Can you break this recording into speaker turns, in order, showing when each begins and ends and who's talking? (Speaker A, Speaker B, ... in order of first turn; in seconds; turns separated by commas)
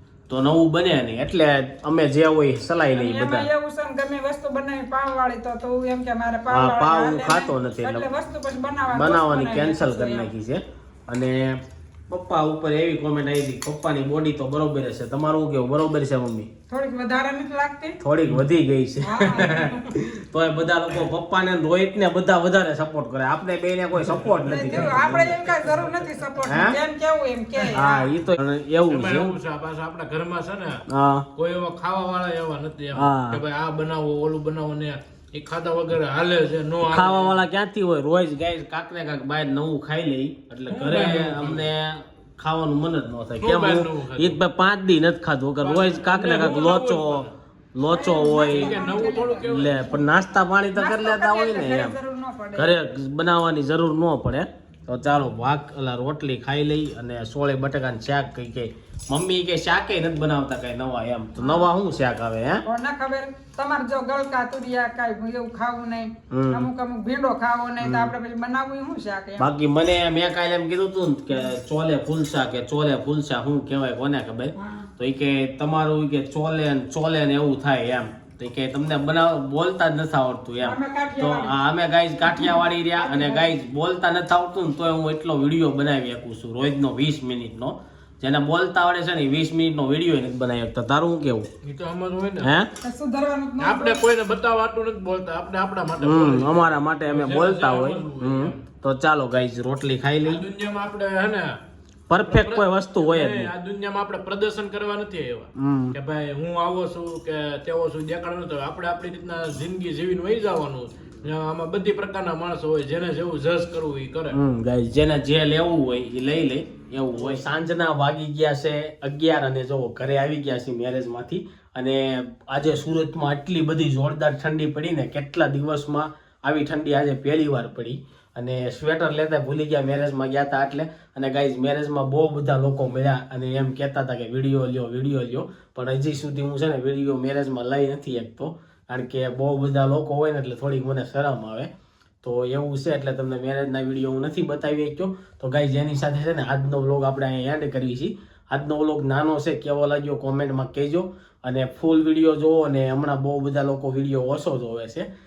Speaker A: 0.3-3.5, Speaker B: 2.9-10.3, Speaker A: 6.5-8.1, Speaker A: 8.9-16.5, Speaker B: 16.7-18.0, Speaker A: 18.0-25.3, Speaker B: 19.0-19.9, Speaker C: 23.9-26.1, Speaker B: 24.5-28.1, Speaker A: 26.4-26.8, Speaker A: 27.7-29.4, Speaker C: 28.9-30.8, Speaker A: 30.9-31.3, Speaker C: 31.3-37.4, Speaker A: 32.9-33.4, Speaker A: 36.8-52.0, Speaker C: 40.7-41.7, Speaker C: 43.4-44.4, Speaker C: 45.6-47.3, Speaker B: 47.9-49.8, Speaker C: 48.3-49.8, Speaker B: 50.8-52.7, Speaker A: 52.5-62.6, Speaker B: 61.4-61.7, Speaker B: 62.6-69.5, Speaker A: 66.3-66.7, Speaker A: 67.8-68.1, Speaker A: 69.4-91.5, Speaker B: 74.5-74.9, Speaker B: 80.6-81.5, Speaker B: 82.2-83.5, Speaker C: 91.6-92.5, Speaker A: 92.4-92.7, Speaker B: 92.8-94.0, Speaker C: 93.6-98.6, Speaker A: 96.0-100.4, Speaker C: 100.2-101.6, Speaker A: 102.1-103.5, Speaker C: 102.2-114.4, Speaker A: 105.5-105.9, Speaker A: 114.3-141.7, Speaker C: 117.1-117.4, Speaker A: 142.2-155.1